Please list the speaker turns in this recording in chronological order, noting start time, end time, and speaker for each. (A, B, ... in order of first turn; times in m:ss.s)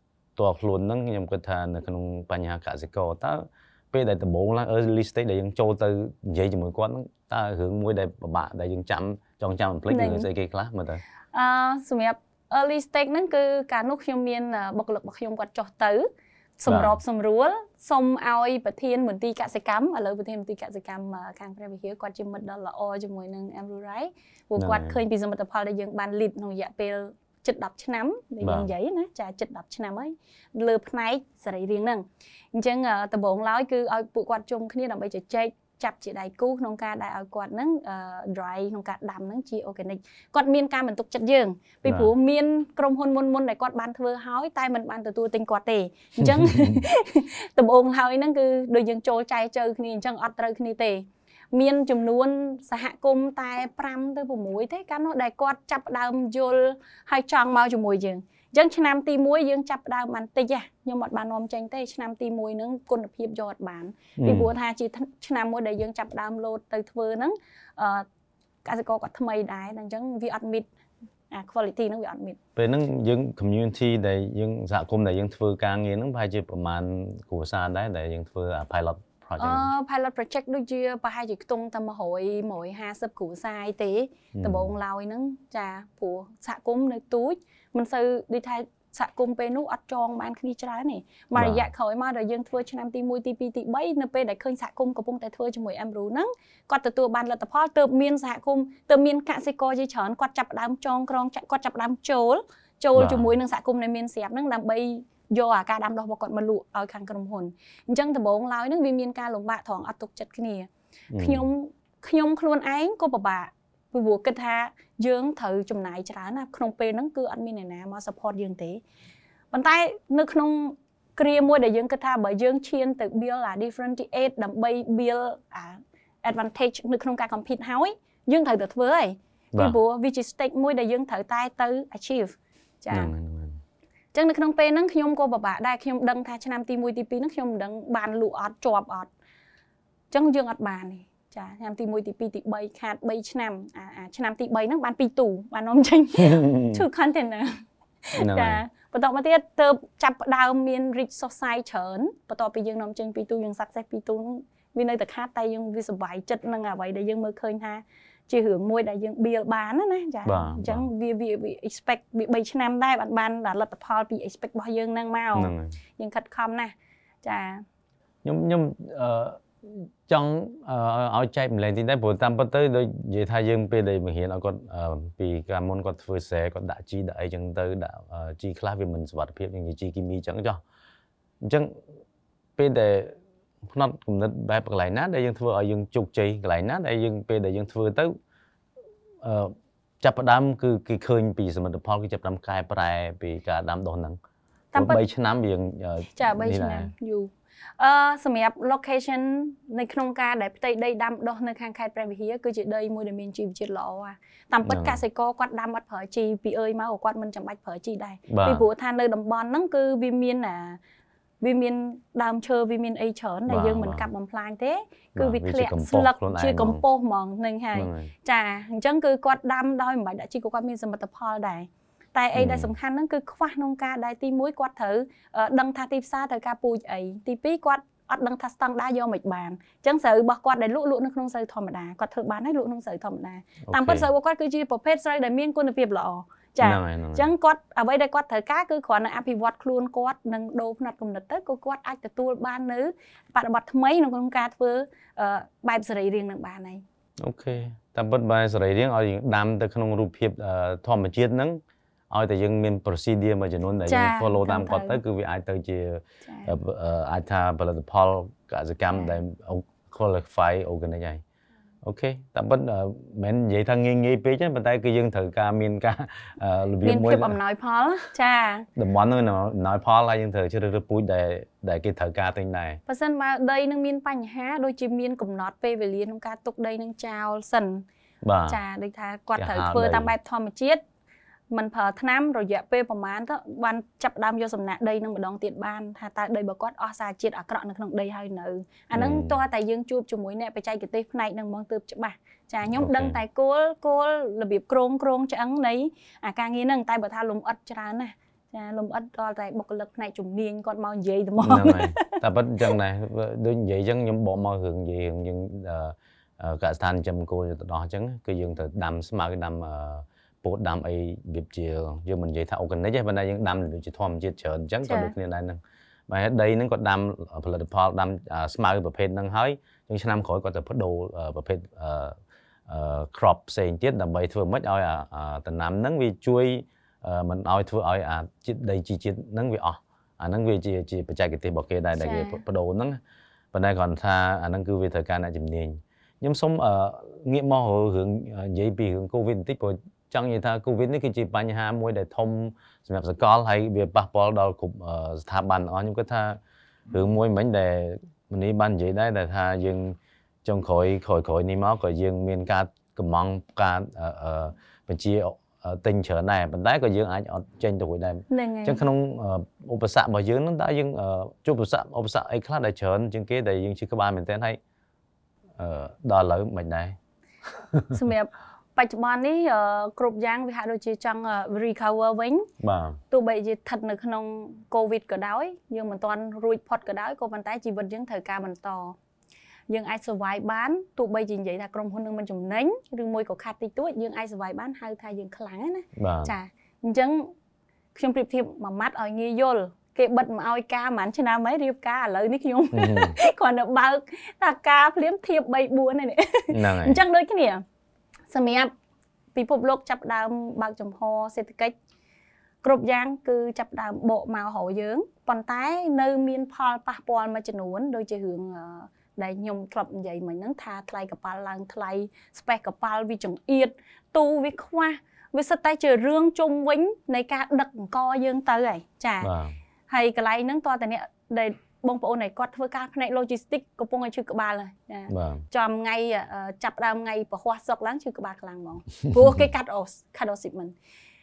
0:00.4-0:11.0 A
0:09.9-0:10.3 B
0:11.3-1:08.0 B
0:16.7-0:17.0 A
0:24.6-0:25.0 A
0:28.4-0:28.7 A
0:41.8-0:42.1 A
0:46.2-0:46.8 A
1:04.2-1:04.5 A
1:08.6-1:10.7 B
1:11.3-1:12.4 B
1:12.6-1:19.7 A
1:19.4-1:58.8 B
1:24.3-1:24.7 A
1:31.4-1:31.7 A
1:42.9-1:43.3 A
1:51.1-1:51.4 A
1:59.5-2:13.1 B
2:12.9-2:13.6 A
2:14.1-2:19.1 B
2:20.1-2:47.6 B
2:26.2-2:26.8 A
2:28.2-2:28.6 A
2:40.2-2:40.8 A
2:45.4-2:45.8 A
2:48.2-3:00.6 A
3:01.4-3:01.8 A
3:02.6-3:08.1 A
3:09.2-3:14.2 A
3:14.7-3:15.0 B
3:14.7-3:16.9 A
3:16.2-3:30.8 B
3:24.6-3:25.0 A
3:28.3-3:28.7 A
3:31.4-4:06.8 B
3:33.5-3:34.1 A
3:35.2-3:36.8 A
3:37.7-3:38.1 A
3:42.3-3:42.7 A
3:53.7-3:54.0 A
3:56.6-3:57.3 A
4:07.2-4:21.2 A
4:13.9-4:15.0 B
4:16.2-4:16.5 B
4:21.8-4:27.4 A
4:26.8-4:28.7 B
4:28.8-4:32.8 A
4:32.9-4:37.8 B
4:38.2-4:38.6 A
4:38.5-4:40.8 B
4:39.4-4:40.1 A
4:41.5-5:02.7 B
4:48.9-4:49.4 A
4:52.7-4:53.2 A
5:01.4-5:22.1 A
5:14.8-5:15.1 B
5:22.7-5:33.0 A
5:32.0-5:32.4 B
5:33.5-5:46.4 A
5:46.9-6:04.6 A
5:58.3-5:58.8 B
6:05.6-6:07.0 A
6:07.6-6:08.0 A
6:07.9-6:12.5 B
6:12.6-6:13.0 A
6:13.1-6:19.0 B
6:19.7-6:27.3 B
6:26.0-6:26.3 A
6:27.9-6:37.6 B
6:32.7-6:33.1 A
6:36.5-6:37.0 A
6:38.3-6:38.7 B
6:39.3-6:41.7 B
6:42.6-6:59.3 B
6:59.2-6:59.6 A
6:59.9-7:10.7 B
7:05.1-7:05.4 A